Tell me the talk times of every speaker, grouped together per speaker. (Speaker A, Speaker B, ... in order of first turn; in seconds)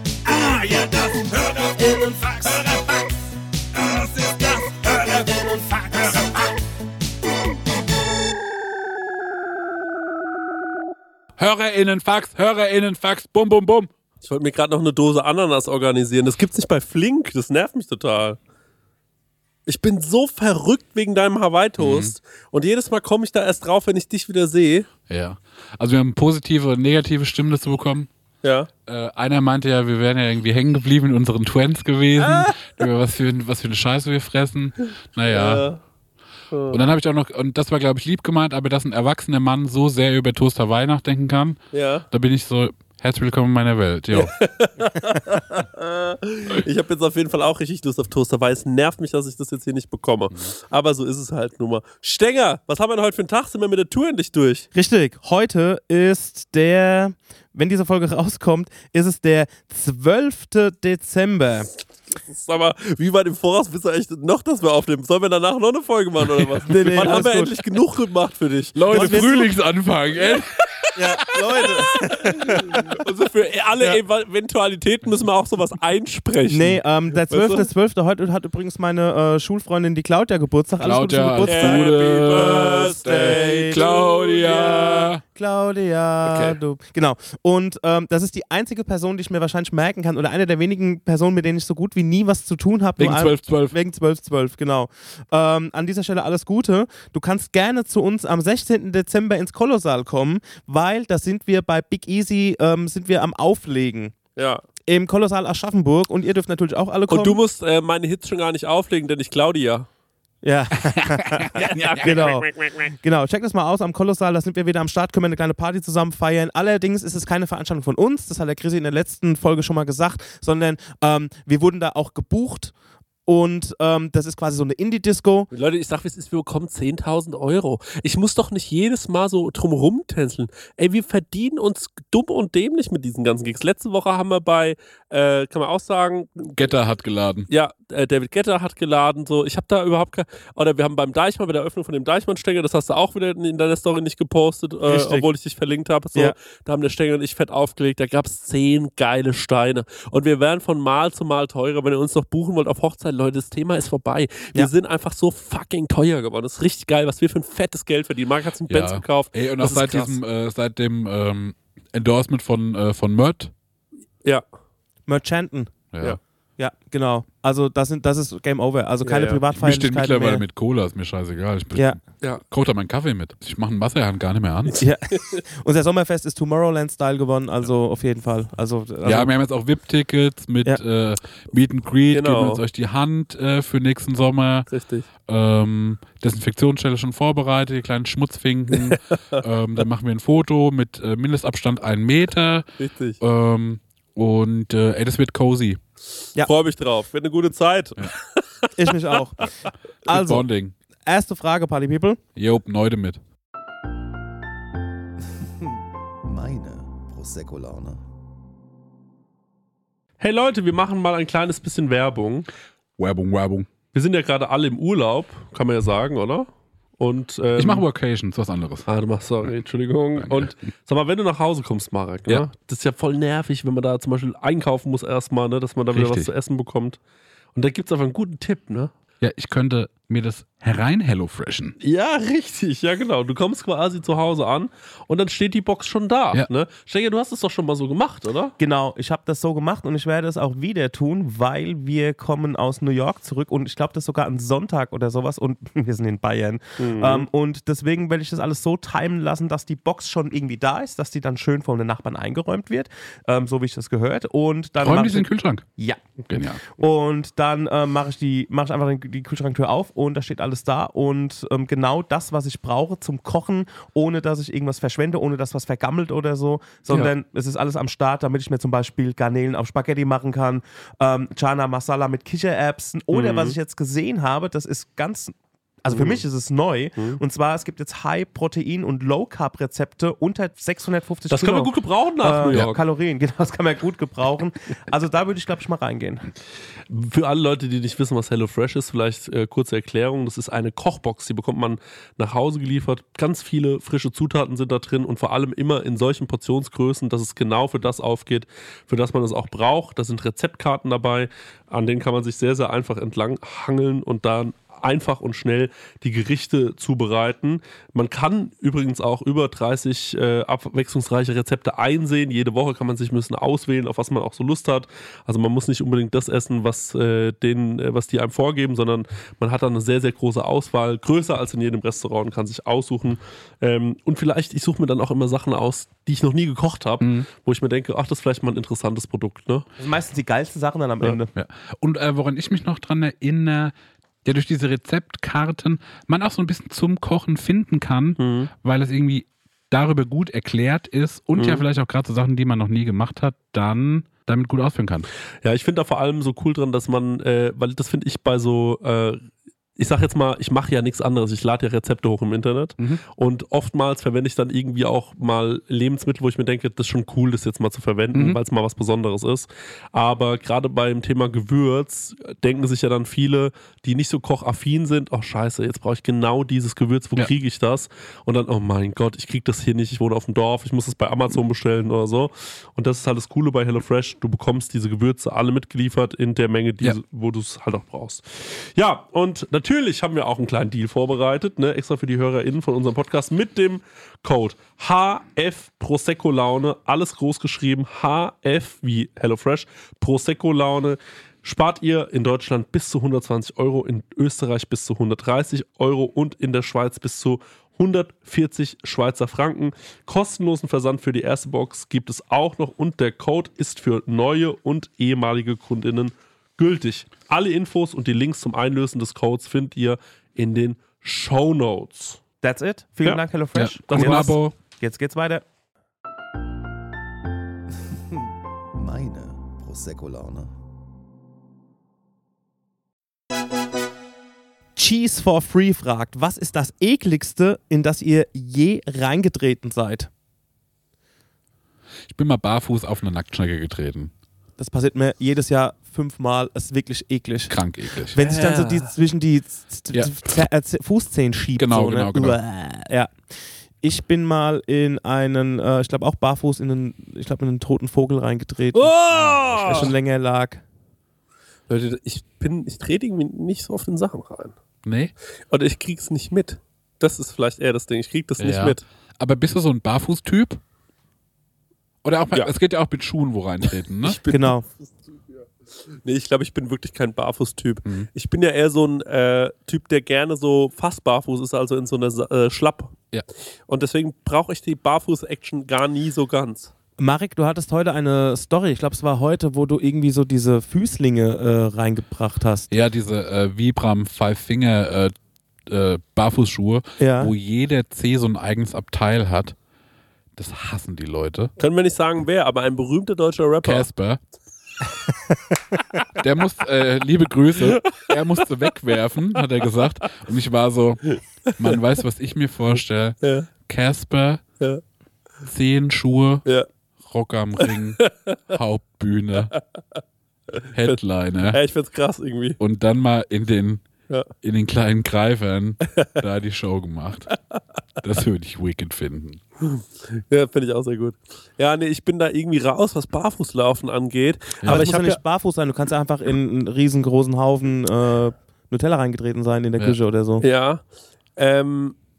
Speaker A: 0.2-6.5
Speaker B: 11.4-13.9, 21.8-22.1, 25.1-28.1, 28.9-35.7, 36.7-41.6, 42.1-44.3, 68.8-70.9, 71.6-71.9, 80.8-85.2, 93.0-93.8, 110.8-112.3, 136.6-137.5, 158.7-163.5, 165.9-166.2, 169.5-174.8, 179.0-184.7, 185.2-192.7, 193.2-195.8, 200.1-200.7, 202.4-203.2, 213.0-213.7, 217.6-218.9, 220.2-220.5, 225.9-226.3, 229.2-231.8, 254.8-255.7, 256.3-256.6, 327.0-327.3, 331.3-333.7, 334.2-345.1, 358.1-358.4, 413.6-414.6, 432.1-434.1, 437.5-438.2, 441.6-442.4, 449.1-449.9, 454.9-455.1, 458.4-460.6, 462.0-464.2, 482.7-485.1, 485.7-489.6, 490.4-491.5, 493.6-494.2, 496.2-504.4, 505.4-506.4, 507.0-509.6, 510.7-511.6, 512.6-513.8, 514.4-517.3, 518.0-519.4, 524.6-524.9
Speaker C: 14.2-18.4, 19.7-24.9, 28.4-28.7, 32.2-32.7, 35.3-35.8, 36.5-36.8, 41.7-42.1, 44.1-54.7, 62.3-69.2, 70.2-70.9, 71.6-77.7, 81.5-85.1, 86.2-86.6, 104.4-104.6, 107.1-109.9, 111.5-112.9, 125.5-136.7, 137.5-160.2, 169.0-169.4, 174.7-175.4, 182.1-182.6, 184.7-185.1, 188.7-189.4, 192.8-193.2, 196.4-199.2, 210.2-212.5, 213.9-216.5, 217.0-217.8, 218.9-227.0, 227.6-228.9, 231.8-238.5, 246.8-247.3, 273.1-273.6, 275.9-276.2, 281.3-282.8, 286.9-329.7, 338.2-338.5, 341.4-341.6, 345.4-349.2, 349.8-412.2, 413.9-414.4, 438.2-438.9, 448.7-449.9, 451.7-454.6, 455.5-458.8, 463.6-472.9, 473.7-476.7, 491.6-493.9, 497.6-498.7, 501.5-501.8, 503.2-503.5, 507.6-508.4, 511.5-512.6, 519.6-525.2, 530.4-530.8, 531.4-532.0
Speaker D: 54.7-61.7, 66.7-67.6, 68.9-69.5, 71.0-73.0, 76.5-83.8, 85.3-104.2, 104.9-107.4, 110.4-122.7, 123.3-125.5, 144.8-145.3, 165.1-165.8, 166.6-170.4, 174.8-179.3, 198.8-200.4, 201.1-202.2, 238.6-286.3, 329.8-331.3, 412.4-415.4, 424.8-430.1, 434.6-437.6, 438.1-443.1, 443.8-449.0, 449.6-450.6, 464.3-464.6, 477.0-482.7, 487.0-487.3, 524.7-530.5
Speaker E: 205.6-208.0, 418.1-420.5